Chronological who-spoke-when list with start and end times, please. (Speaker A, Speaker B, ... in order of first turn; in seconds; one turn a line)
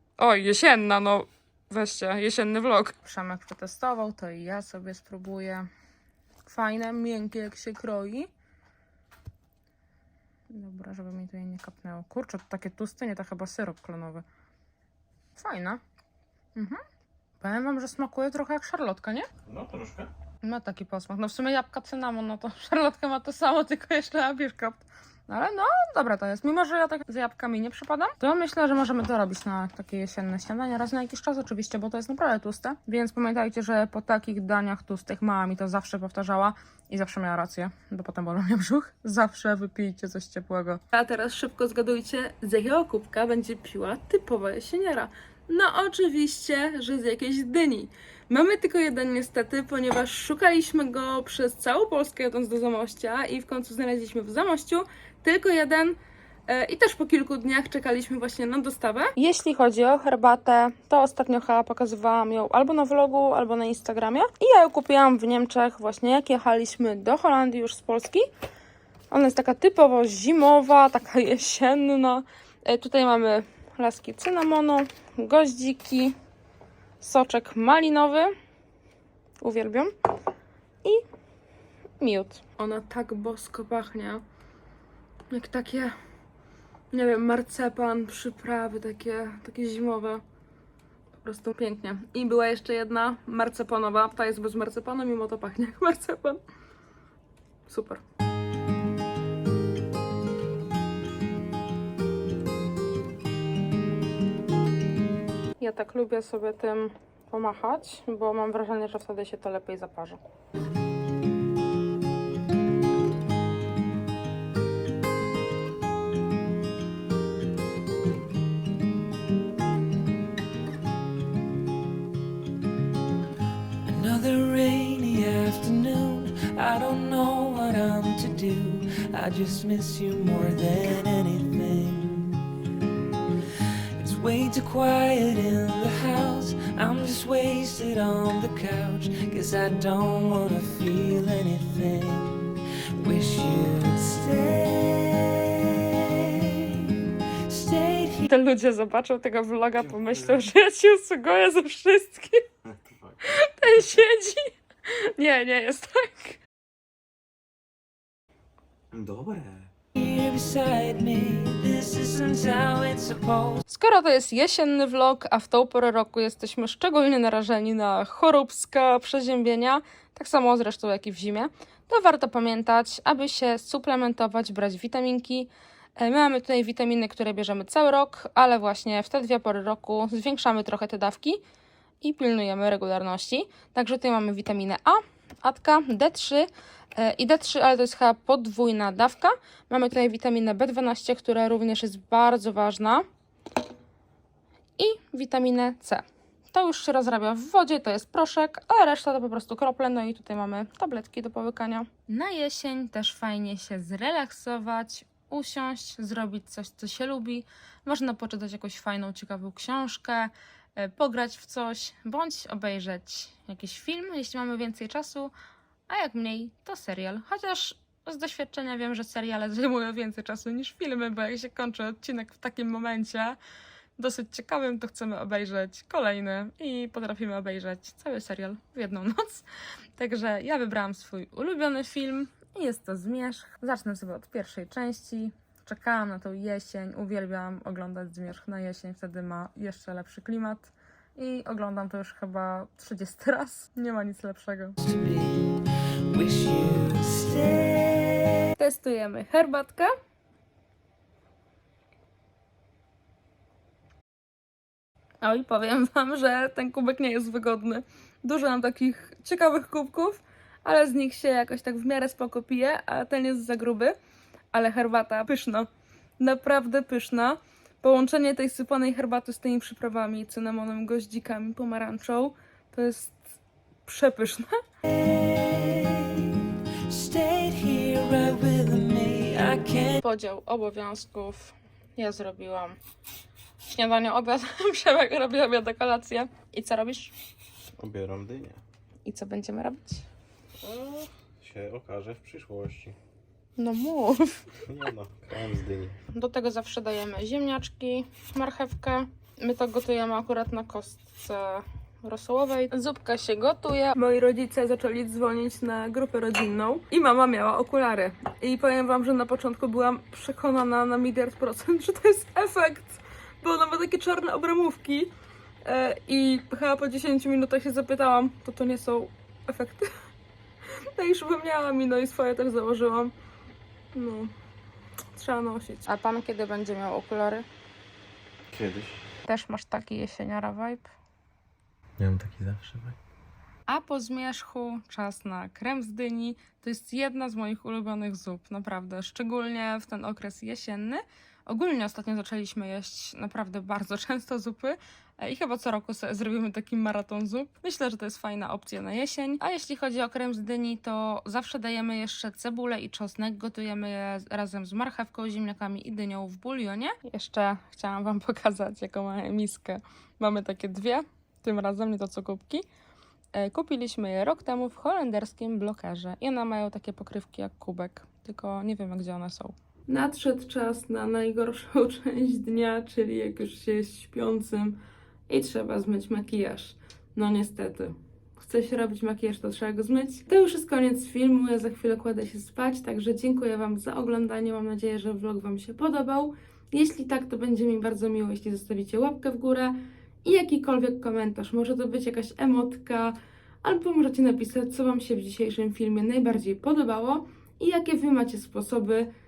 Speaker A: 0.2-5.7
Speaker A: 6.5-8.3
Speaker A: 10.5-14.2
Speaker A: 15.3-15.8
Speaker A: 16.6-16.8
Speaker A: 17.4-19.3
Speaker B: 19.4-20.1
Speaker A: 20.4-68.2
Speaker A: 69.1-76.2
Speaker A: 77.0-78.3
Speaker A: 79.4-79.9
Speaker A: 82.0-84.2
Speaker A: 85.3-85.9
Speaker A: 86.9-90.2
Speaker A: 91.2-96.4
Speaker A: 97.7-98.0
Speaker A: 105.6-110.2
Speaker C: 123.8-132.4
Speaker C: 134.0-148.2
Speaker A: 148.2-152.4
Speaker B: 149.7-150.4
Speaker B: 152.6-153.8
Speaker A: 153.3-156.4
Speaker B: 158.9-159.7
Speaker C: 159.9-163.6
Speaker A: 163.7-181.4
Speaker A: 182.0-193.0
Speaker A: 194.8-215.3
Speaker A: 215.9-223.4
Speaker A: 224.0-229.4
Speaker A: 230.0-244.8
Speaker C: 244.8-248.4
Speaker A: 248.6-249.9
Speaker A: 255.2-263.9
Speaker A: 264.5-265.7
Speaker A: 266.2-273.3
Speaker A: 273.9-274.6
Speaker C: 275.0-280.0
Speaker A: 280.0-282.8
Speaker A: 283.7-287.1
Speaker B: 287.8-288.6
Speaker A: 289.1-290.0
Speaker B: 290.6-293.0
Speaker A: 293.6-294.4
Speaker B: 294.6-296.0
Speaker A: 296.1-315.1
Speaker A: 315.6-319.9
Speaker A: 320.9-323.1
Speaker A: 323.9-324.3
Speaker A: 325.1-327.4
Speaker B: 328.5-329.1
Speaker A: 329.2-330.9
Speaker B: 332.0-333.0
Speaker A: 333.7-362.6
Speaker A: 363.3-399.1